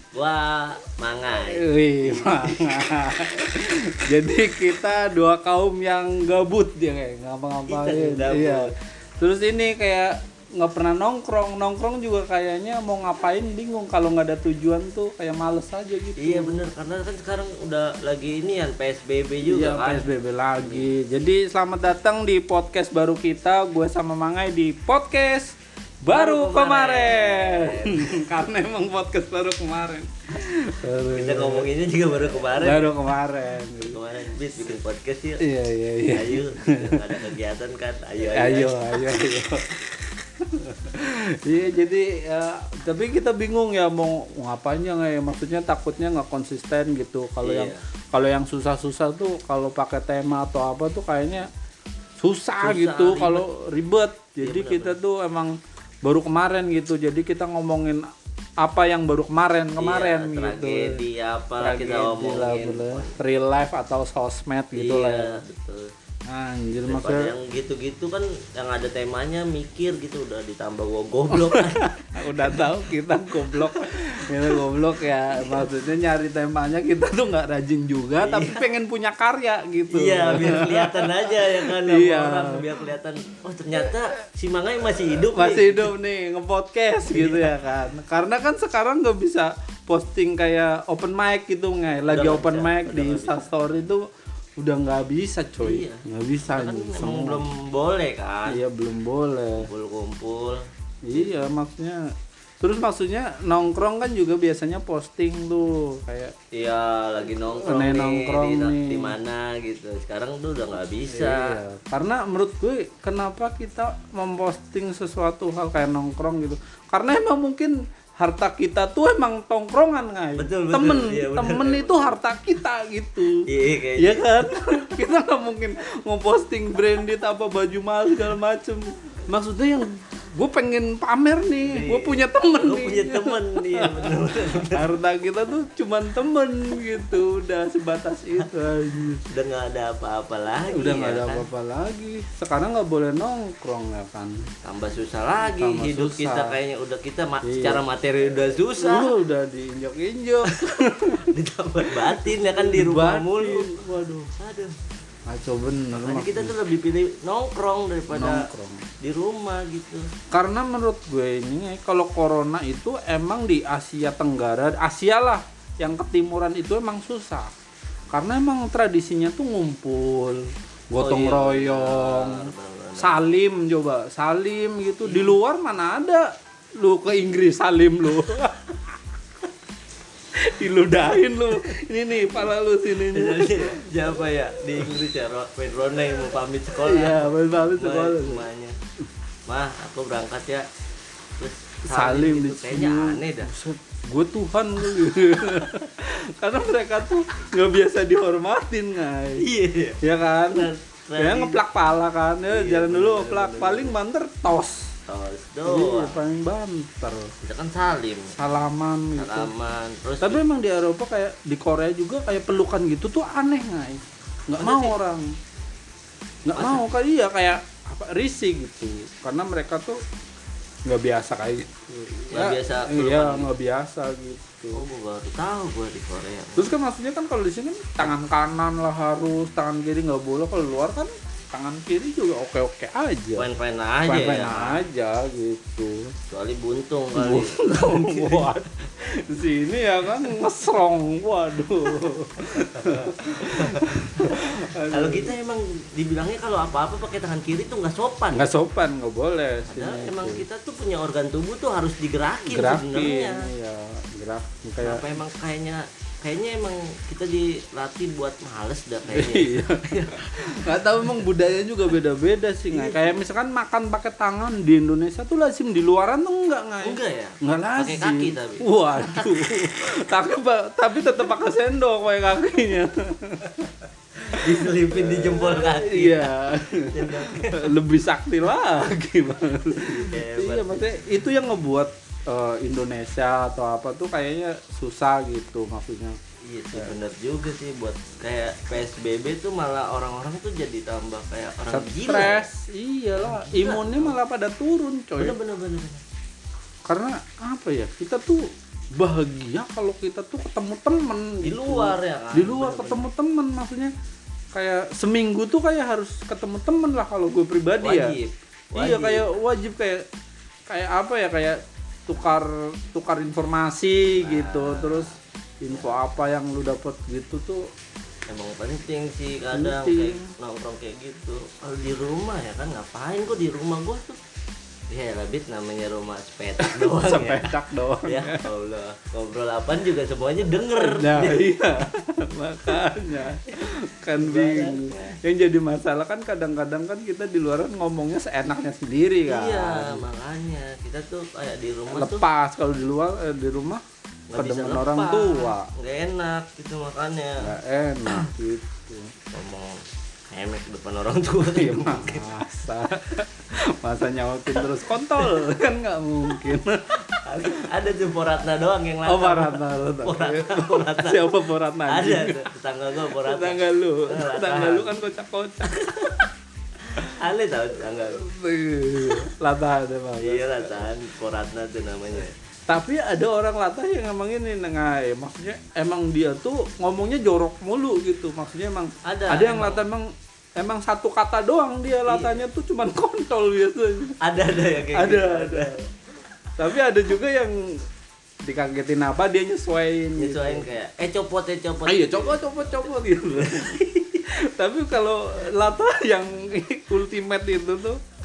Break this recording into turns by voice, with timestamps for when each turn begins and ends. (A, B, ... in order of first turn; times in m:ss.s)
0:00.1-0:02.8 A
0:01.4-0:16.6 B
0:07.7-0:08.7 A
0:16.2-0:20.1 A
0:19.4-0:31.7 B
0:20.6-0:20.8 A
0:26.1-0:28.2 A
0:31.1-0:33.1 A
0:32.3-0:34.4 B
0:33.8-0:35.4 A
0:35.4-0:37.0 B
0:36.1-0:39.2 A
0:38.3-0:51.5 B
0:47.4-0:47.8 A
0:52.2-0:58.1 B
0:52.6-0:53.4 A
0:54.4-0:55.0 A
0:58.6-1:01.0 B
0:59.8-1:03.2 A
1:01.6-1:05.4 B
1:04.7-1:05.9 A
1:06.3-1:07.3 B
1:06.9-1:15.7 A
1:11.3-1:22.6 B
1:18.2-1:18.6 A
1:19.9-1:25.9 A
1:25.3-1:34.1 B
1:27.1-1:27.5 A
1:32.1-1:33.4 A
1:34.6-1:37.4 B
1:35.6-1:38.6 A
1:38.5-1:39.7 B
1:39.6-1:41.4 A
1:41.0-1:42.0 B
1:42.6-1:46.3 B
1:46.5-1:51.6 A
1:47.5-1:49.2 B
1:51.0-2:19.2 B
2:00.3-2:02.2 A
2:03.4-2:04.9 A
2:11.6-2:14.9 A
2:19.3-2:21.4 A
2:20.6-2:24.5 B
2:24.6-2:29.1 A
2:25.4-2:26.6 B
2:27.4-2:27.8 B
2:28.8-2:31.3 B
2:30.5-2:33.8 A
2:31.9-2:34.3 B
2:34.3-2:34.8 A
2:35.3-2:36.6 B
2:35.9-2:38.5 A
2:38.1-2:38.8 B
2:39.0-2:40.1 A
2:40.3-2:47.5 B
2:48.1-2:58.8 B
2:51.0-2:53.2 A
2:55.1-2:55.3 A
3:00.3-3:04.0 B
3:03.0-3:08.8 A
3:06.8-3:08.5 B
3:09.5-3:10.7 A
3:11.4-3:13.5 A
3:11.9-3:19.4 B
3:19.4-3:21.6 A
3:20.0-3:24.9 B
3:22.5-3:24.0 A
3:25.1-3:26.2 A
3:25.6-3:27.3 B
3:27.4-3:28.3 A
3:28.3-3:29.5 B
3:29.2-3:30.4 A
3:30.2-3:35.3 B
3:34.6-3:34.9 A
3:36.4-3:40.0 B
3:36.6-3:36.8 A
3:40.9-3:44.8 B
3:42.3-3:43.5 A
3:44.7-3:46.7 A
3:46.6-3:53.5 B
3:53.3-3:54.8 A
3:54.1-3:56.1 B
3:56.3-3:58.5 A
3:57.2-4:05.4 B
4:02.4-4:08.5 A
4:08.3-4:10.4 B
4:09.7-4:13.5 A
4:12.5-4:15.1 B
4:14.8-4:21.1 A
4:19.1-4:33.7 B
4:22.7-4:23.1 A
4:26.8-4:29.4 A
4:34.2-4:37.8 A
4:34.3-4:46.2 B
4:39.9-4:40.8 A
4:46.4-4:52.5 A
4:51.7-4:55.4 B
4:53.2-4:54.2 A
4:55.2-4:56.0 A
4:56.9-5:03.9 B
5:01.4-5:03.1 A
5:04.5-5:08.2 B
5:07.8-5:09.2 A
5:08.8-5:10.0 B
5:10.7-5:17.7 B
5:14.2-5:15.1 A
5:15.7-5:16.0 A
5:18.3-5:24.2 A
5:19.5-5:20.3 B
5:24.9-5:31.6 A
5:26.6-5:28.5 B
5:30.8-5:40.0 B
5:33.4-5:35.2 A
5:39.3-5:42.2 A
5:41.9-5:43.8 B
5:44.3-5:47.5 A
5:44.4-5:45.7 B
5:47.4-5:49.1 B
5:49.3-5:52.4 A
5:51.6-5:57.7 B
5:54.6-5:55.4 A
5:57.1-6:01.2 A
5:59.1-6:06.3 B
6:01.9-6:04.9 A
6:05.7-6:06.2 A
6:06.8-6:08.2 A
6:08.2-6:10.9 B
6:10.2-6:12.3 A
6:12.7-6:24.2 B
6:19.0-6:19.8 A
6:22.1-6:22.4 A
6:24.2-6:25.8 A
6:24.8-6:25.8 B
6:26.6-6:27.8 B
6:28.4-6:30.7 B
6:30.2-6:34.3 A
6:31.8-6:38.0 B